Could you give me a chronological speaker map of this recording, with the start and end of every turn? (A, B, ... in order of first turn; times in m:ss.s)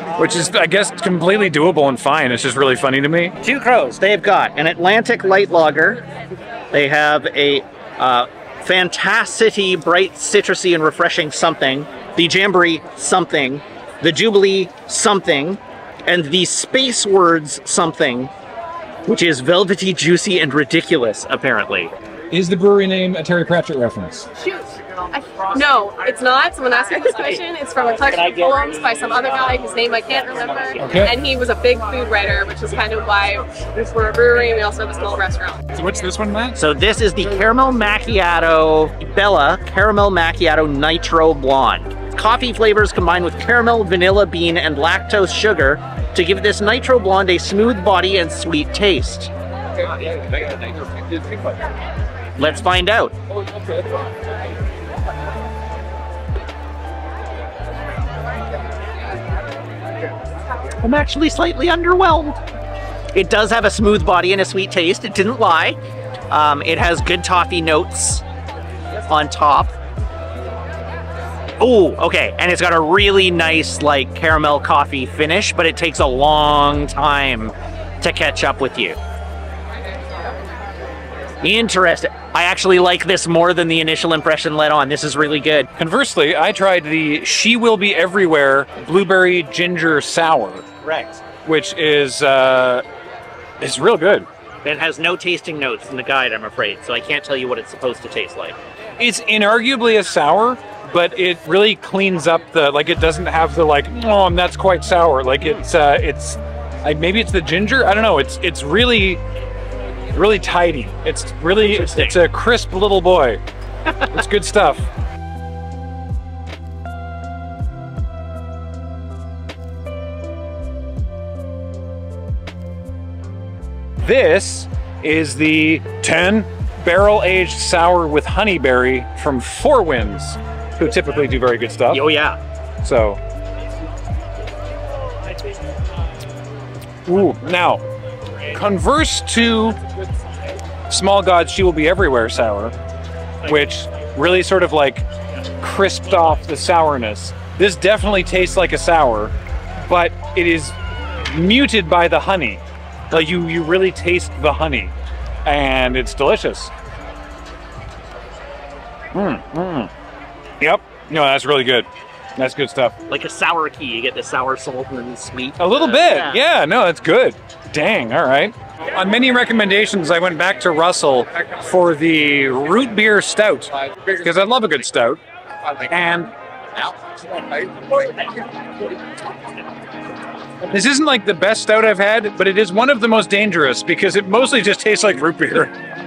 0:00.2-0:03.4 A
0:03.4-0:06.0 B
0:06.7-0:18.3 B
0:19.0-0:21.9 B
0:22.3-0:24.3 A
0:24.4-0:35.6 C
0:30.8-0:31.2 A
0:35.8-0:36.6 A
0:36.6-0:49.3 B
0:52.4-0:53.1 B
1:00.8-1:02.4 B
1:03.1-1:05.8 B
1:06.3-1:08.2 B
1:09.1-1:09.7 B
1:11.6-1:19.0 B
1:21.4-1:25.7 B
1:25.8-1:30.6 A
1:30.8-1:31.2 B
1:31.4-1:32.8 A
1:33.6-1:34.3 A
1:34.6-1:38.6 B
1:39.0-1:49.2 A
1:50.1-1:53.4 A
1:51.8-1:52.1 B
1:54.1-1:54.9 A
2:04.0-2:12.1 A
2:11.9-2:12.4 B
2:12.8-2:13.2 A
2:17.0-2:17.8 A
2:18.5-2:19.8 A
2:20.9-2:22.7 A
2:23.4-2:25.0 A
2:25.6-2:29.3 A
2:29.8-2:34.9 A
2:35.4-2:36.7 A
2:39.1-2:39.9 A
2:40.6-2:43.0 A
2:43.1-2:46.4 B
2:45.6-2:55.2 A
2:55.9-2:56.3 A
3:00.7-3:05.7 A